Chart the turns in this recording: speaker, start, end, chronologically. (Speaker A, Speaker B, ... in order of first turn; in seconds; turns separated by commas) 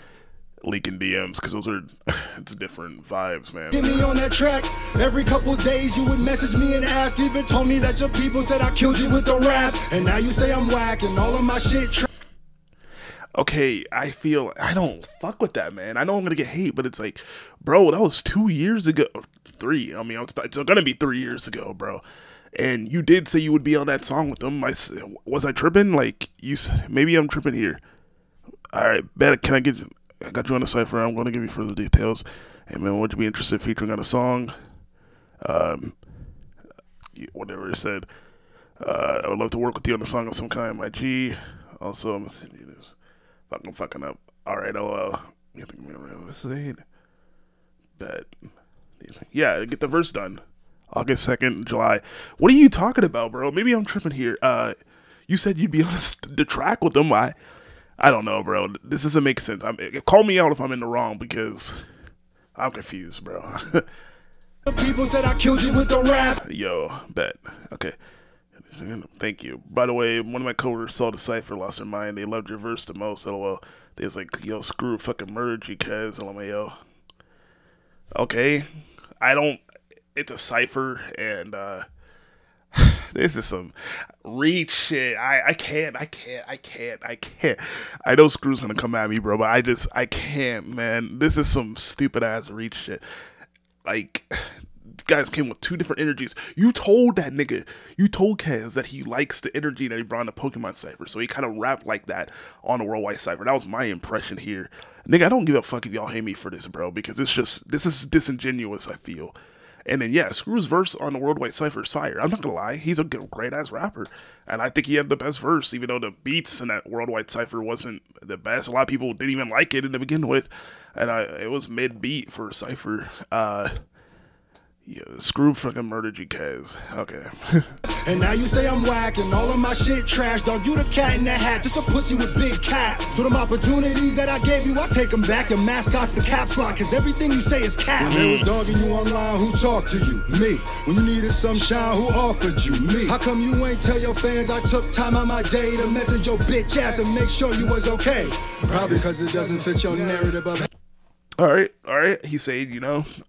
Speaker A: 0.6-3.8, Speaker B: 3.7-12.1, Speaker A: 13.3-22.0, Speaker A: 22.6-27.8, Speaker A: 28.7-34.5, Speaker A: 35.4-36.0, Speaker A: 37.1-38.1, Speaker A: 38.8-43.0, Speaker A: 43.5-46.8, Speaker A: 48.0-48.3, Speaker A: 49.0-54.8, Speaker A: 55.3-57.3, Speaker A: 58.0-61.8, Speaker A: 62.5-63.9, Speaker B: 64.6-66.4, Speaker A: 66.4-68.0, Speaker A: 68.7-76.8, Speaker A: 78.2-78.7, Speaker A: 79.2-79.6, Speaker A: 80.1-81.8, Speaker A: 82.7-93.0, Speaker A: 93.8-109.3, Speaker A: 109.9-123.7, Speaker A: 124.8-127.7, Speaker B: 127.8-150.7, Speaker A: 138.0-138.5, Speaker A: 151.4-153.1